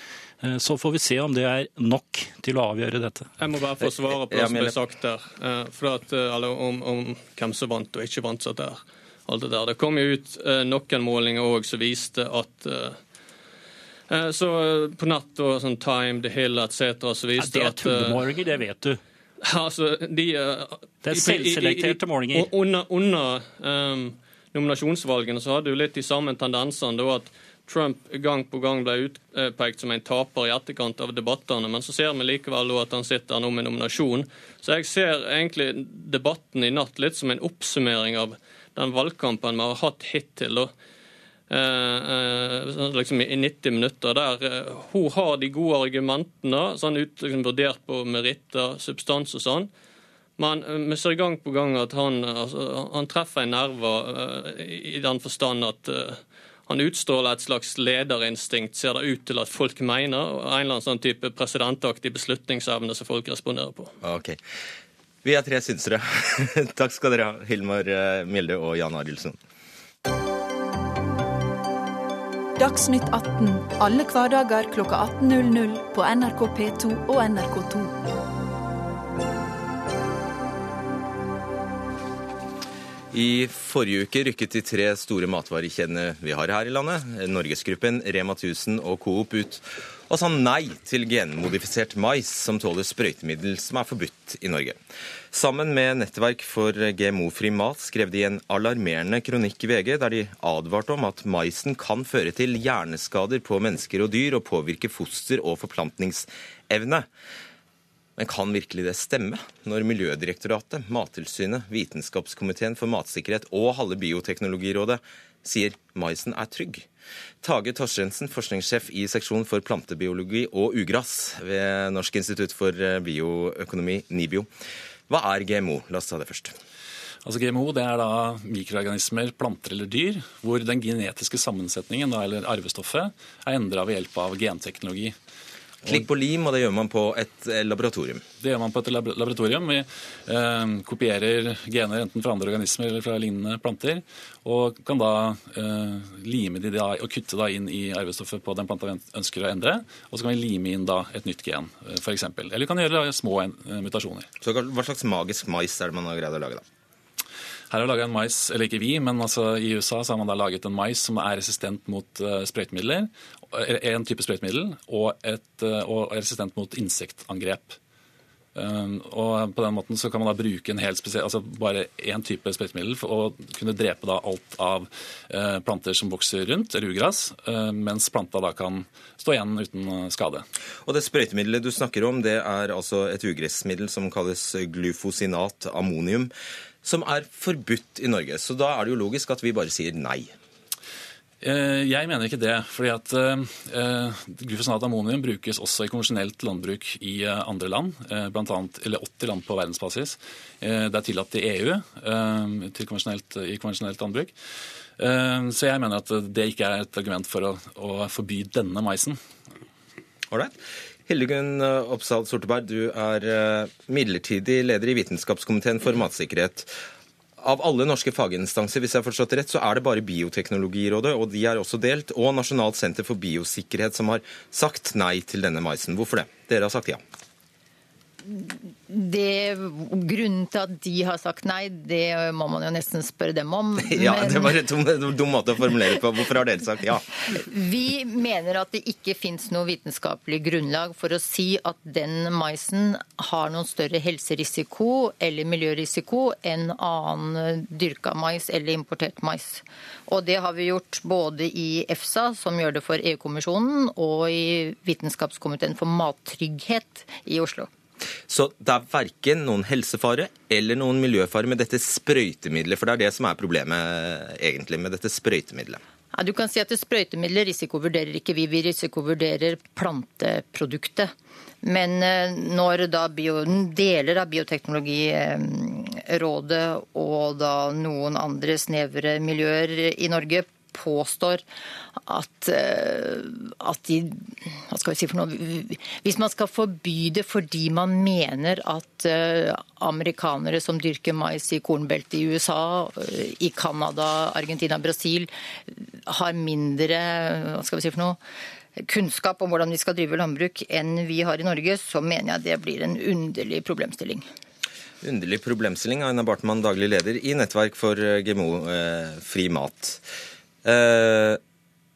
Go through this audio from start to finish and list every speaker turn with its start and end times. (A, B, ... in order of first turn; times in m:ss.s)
0:00.4-0:03.3 A
0:03.4-0:13.0 B
0:03.8-0:04.7 C
0:14.1-0:18.2 B
0:17.4-0:19.0 A
0:19.4-0:40.7 B
0:21.0-0:22.5 A
0:41.5-0:49.7 B
0:50.4-1:03.9 B
1:04.0-1:04.4 C
1:05.2-1:09.4 C
1:12.6-1:18.0 D
1:23.1-1:34.8 C
1:35.3-1:47.1 C
1:48.2-1:56.9 C
1:57.4-2:04.5 C
2:05.1-2:06.6 C
2:07.2-2:15.1 E
2:15.8-2:18.2 C
2:18.4-2:34.3 E
2:34.4-2:36.6 C
2:37.7-2:47.8 E
2:48.5-3:00.4 E
3:00.8-3:06.3 C
3:06.8-3:10.3 C
3:11.4-3:24.3 E
3:25.0-3:29.2 E
3:30.3-3:30.6 C
3:31.1-3:36.7 C
3:37.4-3:47.0 C
3:48.2-3:54.6 F
3:53.8-3:57.1 C
3:57.3-4:17.7 F
4:18.3-4:25.8 C
4:26.1-4:31.1 F
4:31.6-4:41.4 F
4:42.0-4:58.2 F
4:58.8-5:04.2 F
5:05.0-5:10.0 C
5:10.6-5:11.4 C